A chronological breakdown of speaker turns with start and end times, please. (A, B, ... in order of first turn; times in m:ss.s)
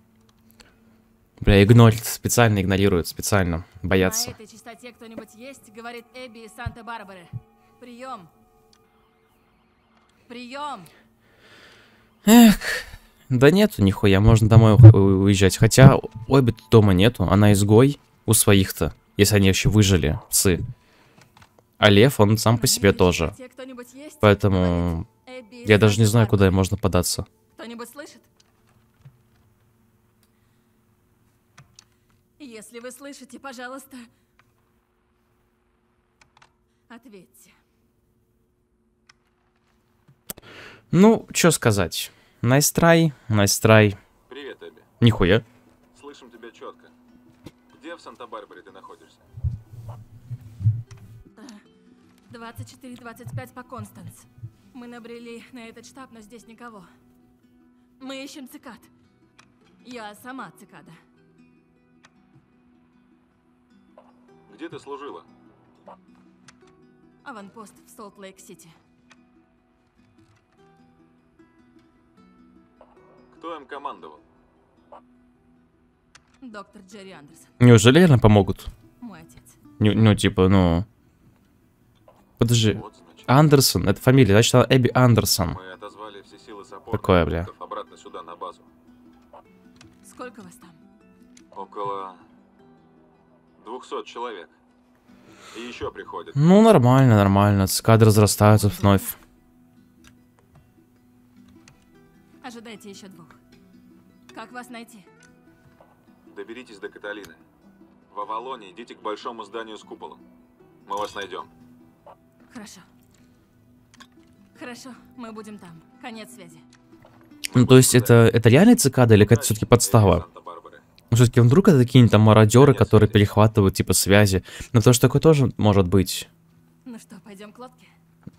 0:01.4-0:04.3 A
0:04.0-0:08.3 B
0:10.3-0:10.9 B
0:12.2-0:20.6 A
0:21.8-0:23.3 A
0:22.5-0:26.5 B
0:24.2-0:25.0 A
0:25.6-0:27.3 A
0:27.6-0:28.3 B
0:32.4-0:34.1 B
0:36.9-0:37.5 B
0:40.9-0:44.0 A
0:44.3-0:44.9 C
0:45.0-0:45.4 A
0:45.9-0:46.9 C
0:47.7-0:49.2 C
0:51.4-0:51.6 B
0:52.3-0:56.9 B
0:58.0-0:58.9 B
0:59.8-1:01.0 B
1:04.5-1:05.3 C
1:07.2-1:08.8 B
1:13.3-1:14.2 C
1:16.4-1:17.5 B
1:17.6-1:18.7 A
1:19.0-1:19.6 B
1:19.8-1:20.9 A
1:22.4-1:25.6 A
1:22.7-1:23.5 C
1:25.5-1:28.6 C
1:26.9-1:27.5 A
1:30.0-1:30.8 B
1:31.5-1:32.2 C
1:33.6-1:34.5 C
1:35.5-1:36.4 C
1:36.3-1:39.2 A
1:42.4-1:43.4 B
1:44.3-1:45.0 B
1:46.3-1:47.4 C
1:48.1-1:50.2 C
1:50.8-1:51.5 C
1:52.5-1:52.8 B
1:54.5-1:56.6 B
1:57.5-1:58.2 C
1:57.5-2:00.2 A
1:59.1-2:00.8 C
2:01.1-2:06.3 A
2:02.5-2:03.2 C
2:06.8-2:07.9 B